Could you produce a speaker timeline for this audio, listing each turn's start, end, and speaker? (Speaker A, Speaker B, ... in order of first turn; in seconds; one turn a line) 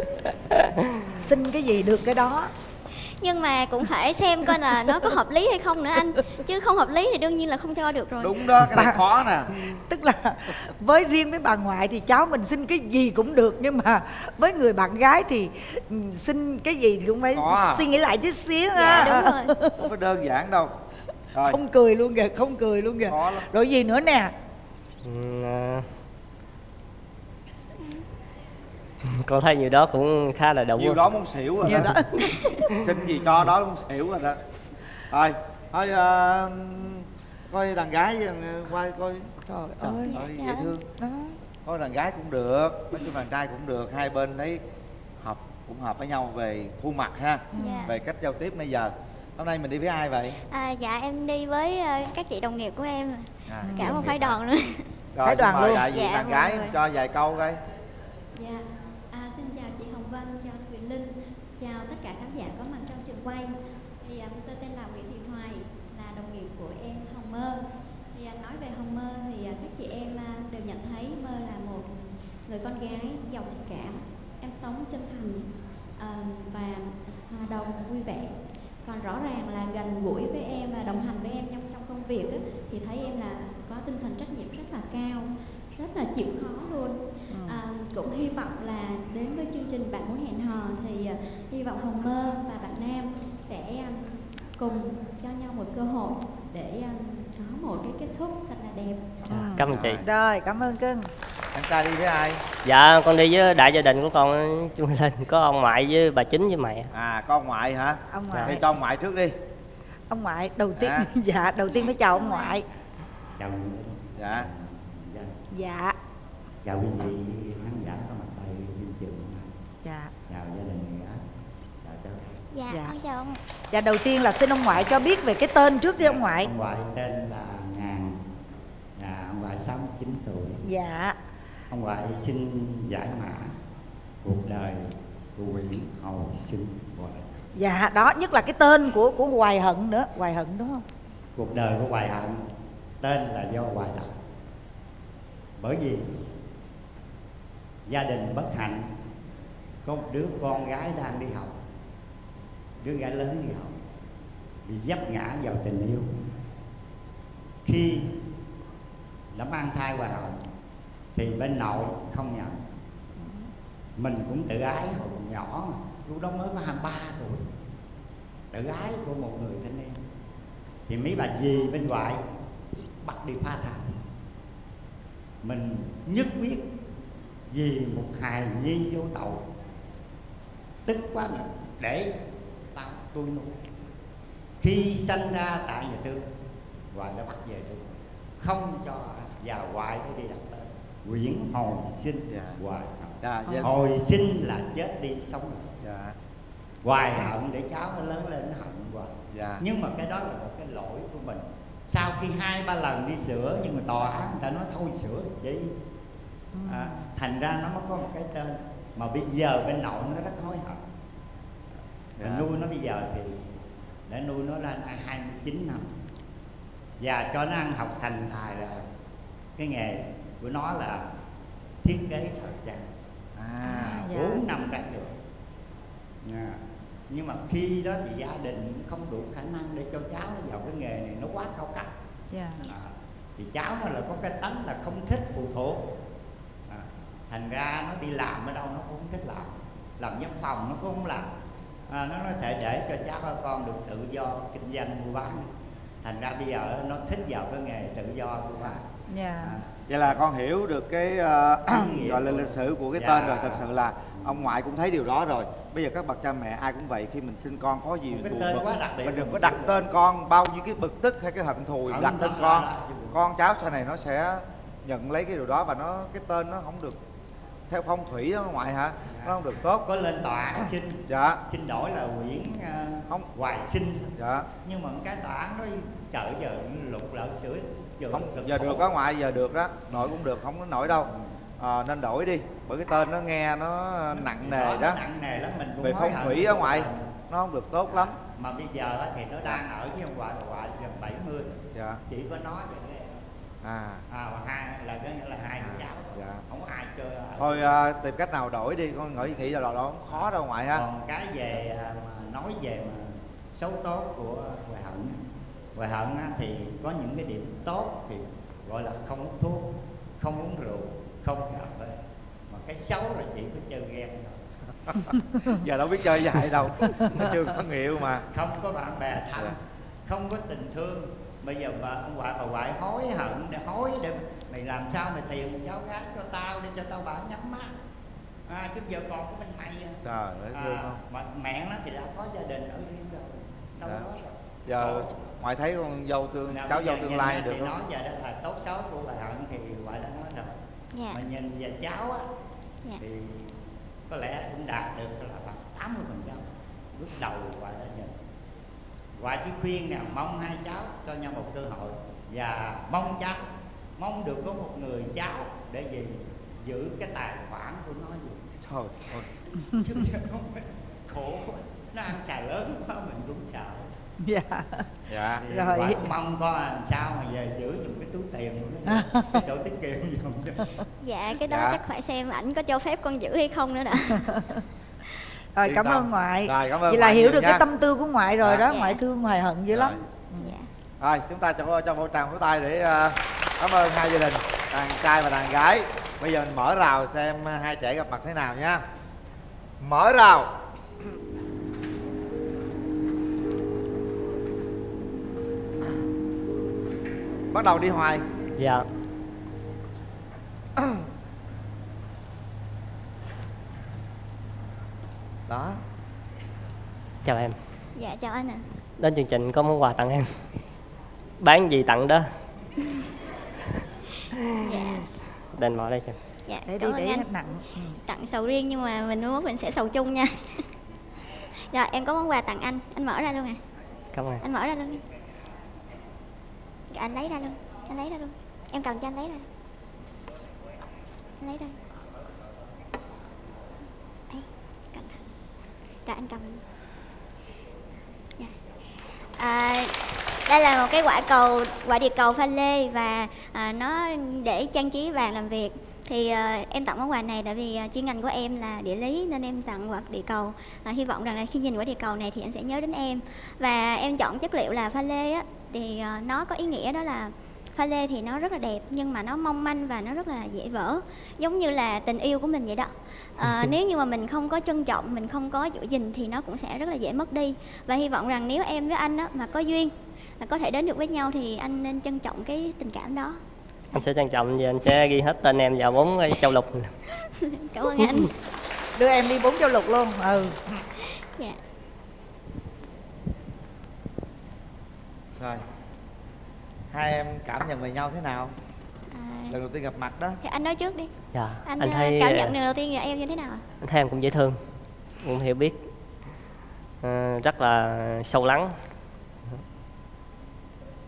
Speaker A: 0.5-1.0
Speaker B: 1.2-2.5
Speaker C: 3.1-8.4
Speaker D: 8.2-9.5
Speaker B: 8.6-9.0
Speaker B: 9.6-19.9
Speaker D: 17.3-17.9
Speaker C: 18.8-19.5
Speaker D: 18.8-19.2
Speaker D: 19.8-20.7
Speaker D: 21.3-21.6
Speaker B: 21.4-24.3
Speaker D: 23.1-23.5
Speaker A: 25.0-25.9
Speaker A: 29.0-31.0
Speaker D: 30.8-32.0
Speaker B: 31.6-32.7
Speaker D: 32.8-34.4
Speaker D: 35.1-40.9
Speaker B: 39.5-40.1
Speaker C: 40.0-40.7
Speaker B: 41.0-41.4
Speaker D: 41.6-44.6
Speaker D: 45.2-50.4
Speaker B: 47.5-47.9
Speaker C: 47.5-47.9
Speaker C: 50.5-54.9
Speaker D: 53.5-54.4
Speaker B: 53.6-54.1
Speaker D: 55.1-57.6
Speaker B: 55.2-55.9
Speaker C: 55.9-56.8
Speaker E: 58.4-71.9
Speaker E: 72.4-99.2
Speaker B: 87.3-87.6
Speaker B: 99.3-101.1
Speaker A: 99.3-100.0
Speaker D: 99.4-100.0
Speaker D: 101.5-102.4
Speaker A: 102.6-106.9
Speaker D: 106.9-109.3
Speaker B: 108.1-108.7
Speaker B: 110.1-112.7
Speaker D: 110.8-111.1
Speaker C: 111.7-112.6
Speaker F: 113.4-115.3
Speaker D: 114.2-114.5
Speaker B: 115.5-116.0
Speaker F: 116.6-119.5
Speaker B: 119.8-120.1
Speaker F: 120.2-121.2
Speaker F: 121.8-122.4
Speaker C: 122.5-123.4
Speaker B: 122.7-123.0
Speaker B: 123.7-126.5
Speaker F: 126.0-128.2
Speaker F: 129.0-130.6
Speaker B: 130.6-131.2
Speaker F: 131.7-133.5
Speaker F: 134.2-137.3
Speaker B: 137.5-140.8
Speaker F: 141.3-142.4
Speaker F: 143.0-144.1
Speaker F: 145.6-146.2
Speaker F: 147.9-148.9
Speaker F: 149.8-151.6
Speaker F: 152.8-153.7
Speaker F: 154.7-156.2
Speaker F: 157.6-158.2
Speaker F: 159.3-160.4
Speaker F: 161.1-162.6
Speaker B: 163.2-163.5
Speaker F: 164.0-167.5
Speaker F: 168.5-170.0
Speaker F: 170.9-172.2
Speaker F: 172.7-174.0
Speaker F: 175.4-176.7
Speaker F: 177.5-179.5
Speaker F: 180.8-182.1
Speaker F: 182.7-183.6
Speaker F: 184.6-186.2
Speaker F: 186.9-187.9
Speaker F: 188.4-195.8
Speaker D: 192.3-192.6
Speaker D: 193.2-193.7
Speaker B: 193.4-193.7
Speaker D: 195.8-196.2
Speaker F: 196.8-205.8
Speaker D: 199.3-199.6
Speaker B: 206.5-207.1
Speaker F: 206.7-210.8
Speaker D: 212.2-212.5
Speaker F: 212.2-213.4
Speaker F: 214.1-215.9
Speaker F: 217.0-218.9
Speaker F: 219.6-221.1
Speaker F: 221.8-222.9
Speaker D: 223.3-224.1
Speaker B: 223.6-224.4
Speaker F: 224.1-225.1
Speaker F: 226.2-231.9
Speaker B: 232.3-232.6
Speaker F: 232.7-235.9
Speaker F: 236.7-241.3
Speaker F: 241.9-245.5
Speaker F: 246.0-248.8
Speaker B: 249.1-249.6
Speaker F: 249.4-249.7
Speaker D: 249.9-267.0
Speaker F: 251.7-254.5
Speaker F: 258.1-259.9
Speaker F: 261.8-263.2
Speaker D: 267.7-269.8
Speaker F: 269.1-274.1
Speaker D: 271.1-271.4
Speaker D: 274.1-274.5
Speaker F: 274.6-278.9
Speaker D: 278.1-285.0
Speaker F: 281.0-281.3
Speaker F: 284.1-287.1
Speaker D: 285.8-288.2
Speaker F: 287.9-293.2
Speaker D: 291.7-292.0
Speaker D: 293.6-294.0
Speaker F: 294.1-297.8
Speaker D: 295.6-296.4
Speaker D: 297.4-300.8
Speaker F: 300.1-305.2
Speaker F: 305.8-314.4
Speaker D: 315.5-318.2
Speaker F: 318.3-327.7
Speaker F: 328.5-330.0
Speaker D: 330.0-331.0
Speaker F: 330.5-335.1
Speaker D: 333.8-334.1
Speaker D: 334.6-337.7
Speaker F: 336.5-340.6
Speaker C: 340.9-341.2
Speaker F: 341.1-342.2
Speaker F: 343.0-343.6
Speaker F: 344.1-348.1
Speaker F: 349.2-353.4
Speaker F: 354.0-358.4
Speaker D: 358.6-359.2
Speaker F: 359.8-363.9
Speaker B: 364.2-364.9
Speaker D: 365.1-365.4
Speaker F: 365.4-370.7
Speaker B: 365.5-366.1
Speaker B: 368.9-369.4
Speaker C: 371.0-374.3
Speaker D: 371.5-371.8
Speaker B: 374.2-374.6
Speaker B: 375.6-380.5
Speaker D: 375.6-377.6
Speaker C: 378.7-379.0
Speaker D: 379.7-380.0
Speaker C: 380.4-380.7
Speaker D: 381.0-388.8
Speaker D: 389.8-390.5
Speaker D: 397.5-398.2
Speaker A: 398.6-398.8
Speaker D: 405.5-405.8
Speaker A: 407.2-407.6
Speaker C: 407.9-408.6
Speaker A: 409.0-410.4
Speaker A: 411.4-412.3
Speaker C: 414.6-415.1
Speaker A: 415.5-416.2
Speaker C: 416.5-417.3
Speaker B: 416.7-418.0
Speaker C: 418.0-420.7
Speaker C: 421.6-423.6
Speaker A: 424.1-424.4
Speaker C: 424.4-425.0
Speaker C: 426.9-429.4
Speaker C: 431.4-431.8
Speaker C: 434.3-435.2
Speaker C: 436.1-436.6
Speaker C: 439.3-439.9
Speaker C: 440.5-473.4
Speaker A: 473.9-476.9
Speaker C: 477.4-478.3
Speaker B: 478.9-480.6
Speaker C: 481.0-481.6
Speaker D: 485.4-485.6
Speaker D: 486.9-488.5
Speaker C: 489.1-489.6
Speaker D: 489.5-490.4
Speaker C: 490.4-491.1
Speaker A: 491.3-492.5
Speaker C: 491.6-493.6
Speaker A: 493.8-494.6
Speaker A: 495.2-495.8
Speaker A: 497.0-498.8